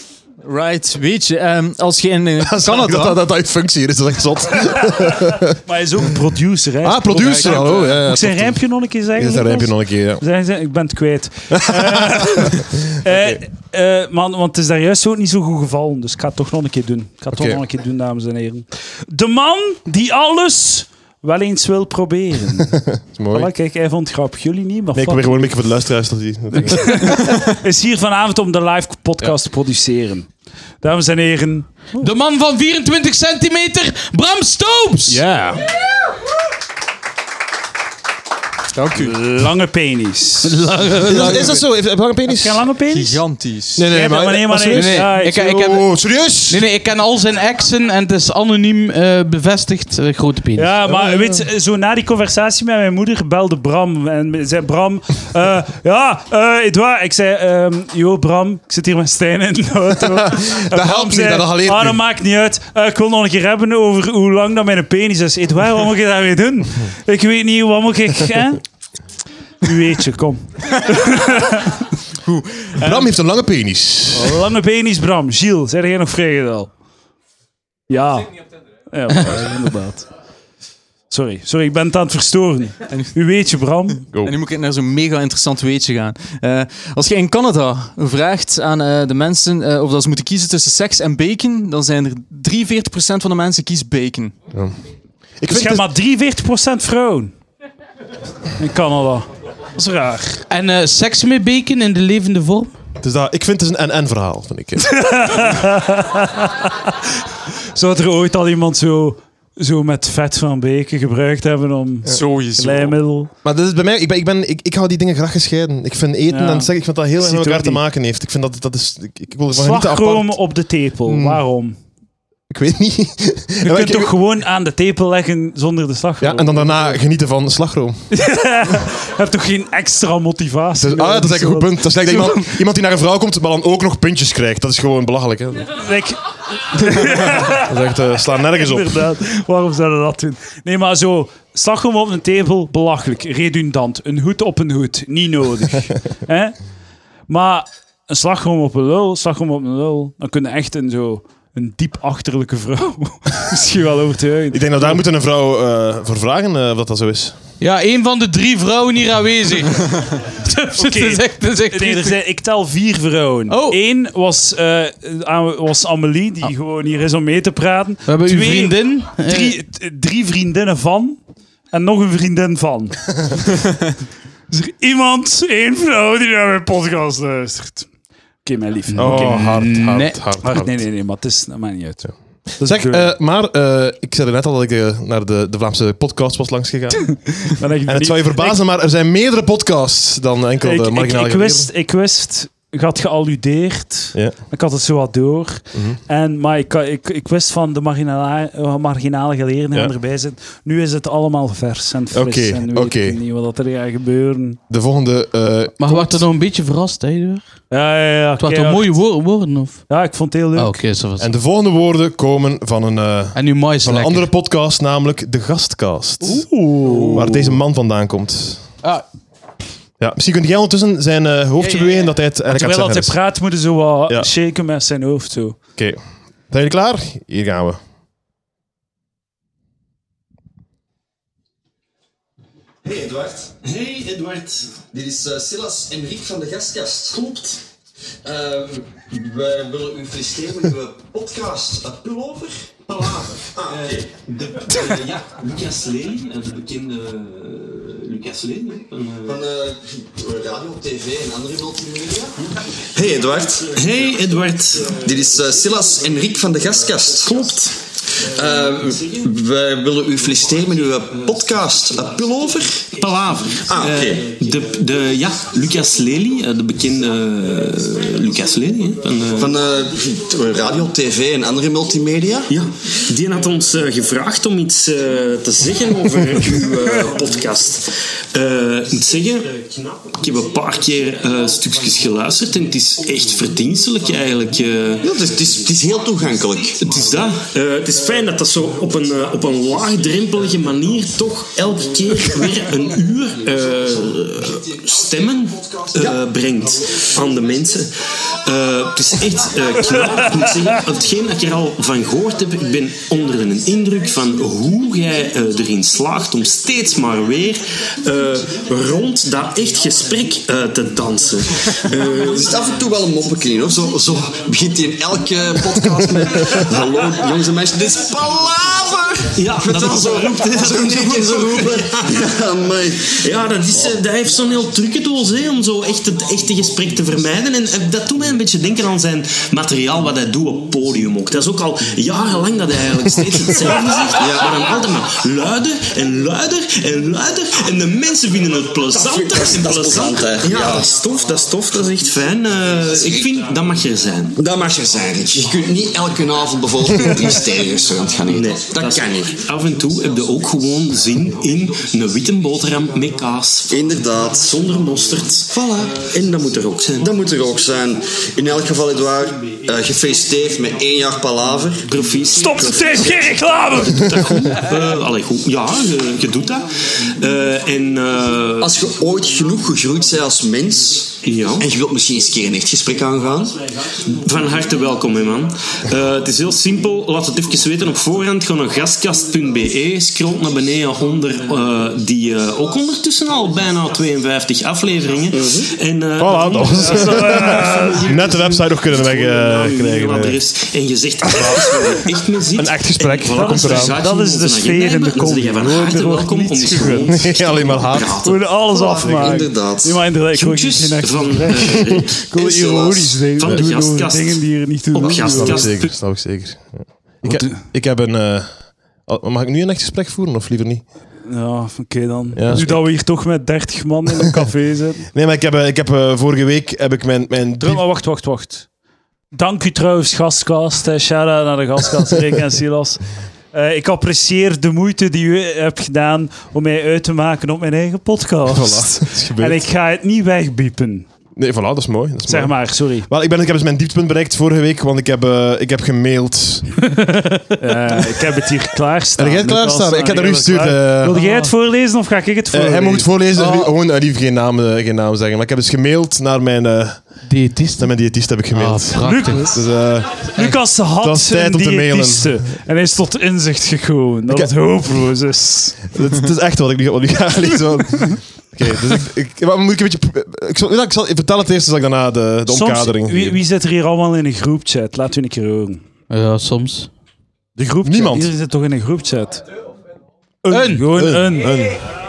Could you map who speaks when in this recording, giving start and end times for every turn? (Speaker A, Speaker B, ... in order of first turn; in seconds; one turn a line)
Speaker A: 0.4-3.2
Speaker B: 2.4-5.5
Speaker C: 5.6-25.5
Speaker B: 6.8-10.2
Speaker A: 7.2-7.8
Speaker B: 11.5-12.5
Speaker B: 13.0-13.4
Speaker B: 17.3-17.6
Speaker B: 22.9-23.5
Speaker B: 24.9-27.2
Speaker C: 26.6-30.3
Speaker C: 30.8-32.1
Speaker D: 32.0-35.2
Speaker B: 35.1-35.5
Speaker A: 38.7-39.1
Speaker C: 38.9-41.6
Speaker D: 40.5-41.5
Speaker B: 41.0-42.6
Speaker C: 42.3-43.2
Speaker A: 42.9-43.9
Speaker B: 43.8-46.6
Speaker C: 43.8-45.5
Speaker D: 44.7-45.9
Speaker D: 46.5-50.8
Speaker C: 50.5-68.6
Speaker B: 50.9-51.4
Speaker B: 60.0-62.0
Speaker C: 69.6-71.8
Speaker A: 72.2-72.8
Speaker B: 72.8-74.4
Speaker C: 74.1-76.7
Speaker C: 77.9-78.3
Speaker C: 78.9-80.1
Speaker C: 81.1-84.0
Speaker A: 82.9-83.1
Speaker A: 84.2-94.3
Speaker B: 95.4-95.8
Speaker C: 95.5-97.3
Speaker C: 98.6-100.4
Speaker D: 100.5-102.7
Speaker B: 103.0-105.0
Speaker C: 104.9-106.9
Speaker C: 107.7-113.3
Speaker A: 112.0-113.0
Speaker B: 113.4-120.4
Speaker C: 116.3-117.8
Speaker C: 119.5-121.8
Speaker B: 121.0-121.4
Speaker B: 122.5-124.1
Speaker C: 123.6-126.9
Speaker B: 126.2-128.0
Speaker C: 128.1-132.5
Speaker B: 130.8-135.7
Speaker C: 135.7-136.2
Speaker C: 136.7-137.7
Speaker B: 137.2-139.0
Speaker C: 138.6-146.6
Speaker C: 147.3-155.0
Speaker B: 154.5-157.3
Speaker D: 157.6-162.2
Speaker C: 160.8-171.2
Speaker D: 163.5-163.8
Speaker D: 168.1-169.5
Speaker C: 171.7-173.1
Speaker C: 174.5-177.9
Speaker C: 178.4-179.8
Speaker D: 178.9-180.2
Speaker B: 179.0-180.8
Speaker C: 180.4-183.1
Speaker B: 182.6-187.2
Speaker C: 187.2-188.6
Speaker B: 187.8-191.7
Speaker C: 190.6-204.6
Speaker B: 195.7-196.0
Speaker B: 202.1-203.2
Speaker B: 204.7-206.2
Speaker D: 205.8-207.4
Speaker C: 207.7-209.0
Speaker D: 208.4-209.8
Speaker C: 209.9-210.8
Speaker D: 210.6-211.3
Speaker B: 211.2-216.4
Speaker D: 213.3-214.3
Speaker C: 216.2-217.3
Speaker D: 216.3-217.4
Speaker B: 217.0-218.6
Speaker B: 220.0-223.2
Speaker C: 221.6-225.6
Speaker B: 226.5-227.8
Speaker E: 232.8-233.5
Speaker F: 233.6-234.8
Speaker E: 234.9-237.2
Speaker F: 237.1-237.6
Speaker E: 238.2-244.0
Speaker F: 243.7-249.3
Speaker E: 249.2-252.3
Speaker E: 252.9-253.8
Speaker F: 253.7-255.0
Speaker E: 255.0-257.5
Speaker F: 257.2-257.8
Speaker E: 258.2-262.9
Speaker F: 262.8-269.5
Speaker E: 263.6-264.3
Speaker E: 269.4-272.5
Speaker F: 272.5-285.3
Speaker E: 285.0-286.8
Speaker F: 286.8-297.9
Speaker E: 295.9-296.2
Speaker F: 298.4-312.2
Speaker E: 311.7-323.1
Speaker F: 319.3-322.4
Speaker F: 323.1-344.4
Speaker E: 334.2-334.7
Speaker E: 338.9-340.9
Speaker E: 344.4-349.4
Speaker F: 348.2-357.1
Speaker E: 353.7-354.5
Speaker E: 355.5-356.1
Speaker E: 357.0-361.9
Speaker F: 361.8-368.8
Speaker C: 362.4-364.2
Speaker E: 368.6-373.6
Speaker F: 371.2-371.7
Speaker F: 374.1-387.6
Speaker E: 385.3-385.7
Speaker B: 386.2-390.4
Speaker C: 386.7-388.7
Speaker F: 388.9-398.6
Speaker B: 392.6-393.9
Speaker C: 393.3-397.2
Speaker B: 397.1-398.2
Speaker C: 398.2-405.9
Speaker E: 398.6-400.1
Speaker F: 400.3-402.2
Speaker E: 402.3-403.3
Speaker F: 403.4-406.0
Speaker B: 405.2-410.8
Speaker C: 407.2-407.6
Speaker C: 411.3-415.1
Speaker B: 412.3-412.9
Speaker B: 415.1-417.8
Speaker C: 417.6-418.7
Speaker C: 419.3-423.0
Speaker C: 423.5-431.1
Speaker B: 428.4-429.6
Speaker B: 431.4-436.8
Speaker C: 432.2-433.1
Speaker C: 437.6-443.1
Speaker B: 439.2-441.2
Speaker D: 441.2-441.5
Speaker B: 442.5-452.5
Speaker D: 443.4-443.7
Speaker D: 447.3-449.5
Speaker C: 449.0-449.6
Speaker C: 450.2-455.8
Speaker B: 454.3-454.5
Speaker B: 455.9-463.4
Speaker C: 462.5-465.8
Speaker D: 466.1-466.9
Speaker C: 467.6-469.4
Speaker B: 467.8-468.3
Speaker C: 470.4-471.6
Speaker D: 470.5-470.8
Speaker B: 470.9-471.8